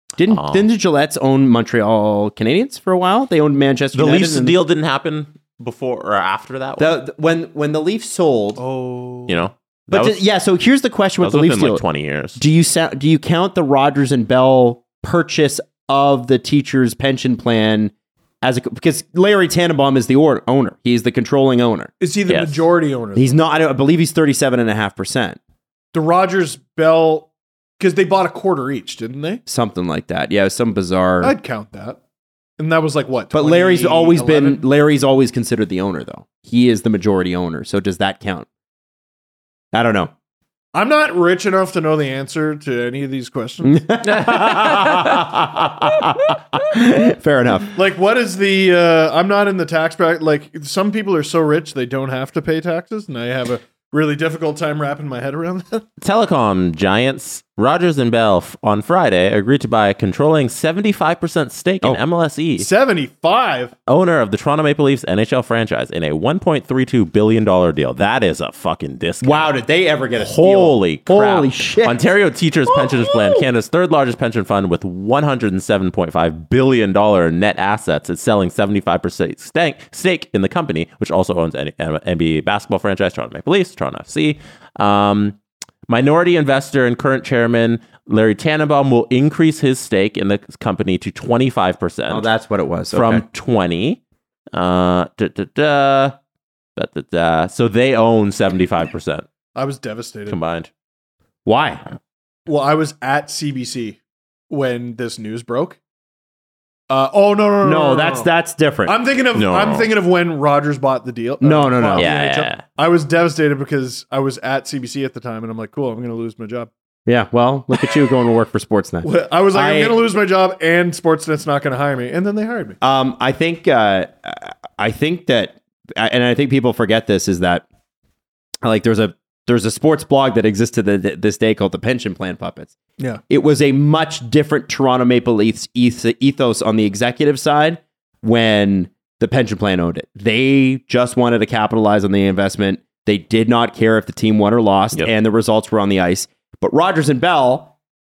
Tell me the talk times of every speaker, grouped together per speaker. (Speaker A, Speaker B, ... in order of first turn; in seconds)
Speaker A: 0.2-4.6, 6.8-8.6, 9.9-11.8, 12.4-21.9, 23.2-25.4, 29.5-31.4, 33.3-38.5, 39.7-40.1, 43.6-47.7, 69.2-72.0, 72.7-73.5, 92.1-93.2, 101.5-101.8, 107.6-109.0, 111.4-112.1, 117.1-120.2, 122.8-127.7, 128.6-132.7, 133.3-147.7
Speaker B: 0.3-0.7, 3.9-7.0, 9.3-10.2, 11.2-12.4, 22.3-22.6, 44.3-45.2, 56.0-62.7, 63.9-69.5, 70.2-85.4, 85.9-92.3, 92.9-94.0, 94.5-96.2, 96.8-99.2, 100.3-100.7, 109.3-109.9, 112.0-112.6
Speaker C: 8.6-9.5, 22.0-23.4, 25.9-29.4, 31.2-32.0, 32.6-34.6, 40.7-43.9, 47.7-55.9, 62.6-63.7, 99.5-100.4, 102.5-104.0, 104.5-105.8, 106.9-108.3, 108.9-116.7, 119.0-122.8